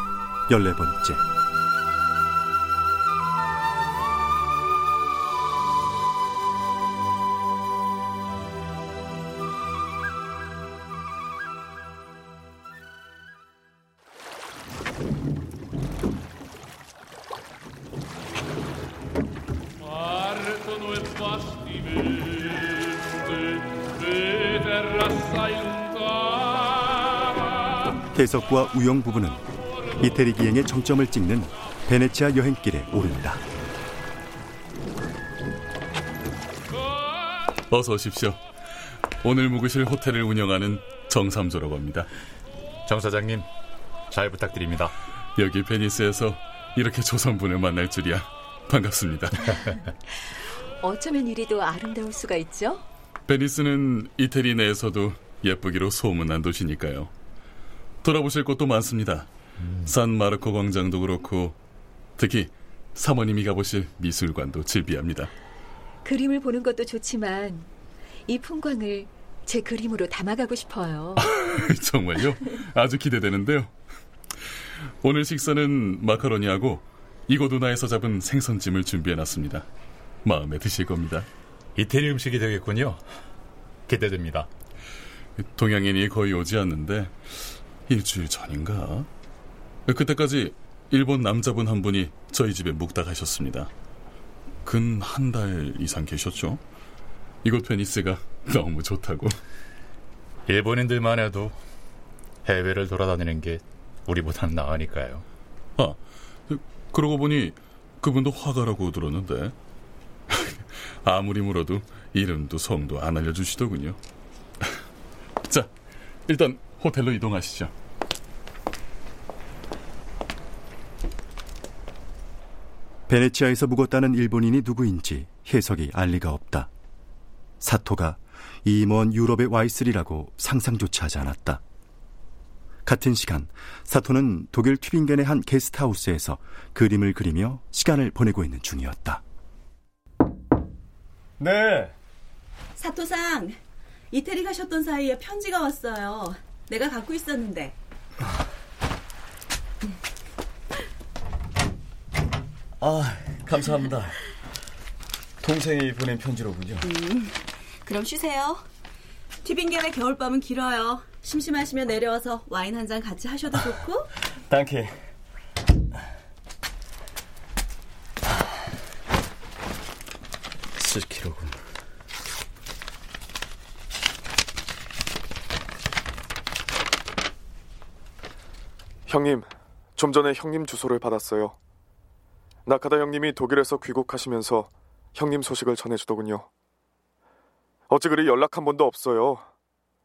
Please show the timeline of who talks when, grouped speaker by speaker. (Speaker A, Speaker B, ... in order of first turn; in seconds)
Speaker A: 0.5-1.2, 28.1-29.4, 30.0-33.4, 123.1-126.7, 127.6-131.6, 132.8-139.2
Speaker B: 37.7-38.4, 39.2-42.1, 45.4-49.7, 53.3-57.1, 58.0-61.5, 62.2-65.3, 71.2-73.7, 75.0-79.7, 80.2-81.3, 85.4-87.2, 87.9-89.1, 89.9-93.7, 94.6-96.6, 97.4-99.4, 105.8-109.5, 110.3-114.0, 116.3-117.7
Speaker C: 42.9-43.5, 44.1-44.9, 81.8-83.0, 83.9-84.5, 100.5-101.5, 102.5-105.2
Speaker D: 50.8-52.8, 66.0-67.7, 68.3-71.3
Speaker E: 141.4-141.9, 152.8-154.2, 155.4-156.9, 164.5-164.9, 170.8-171.6
Speaker F: 142.8-143.6, 144.1-147.7, 157.8-158.6, 159.4-164.0
Speaker G: 179.1-181.5, 182.7-186.5, 187.9-189.4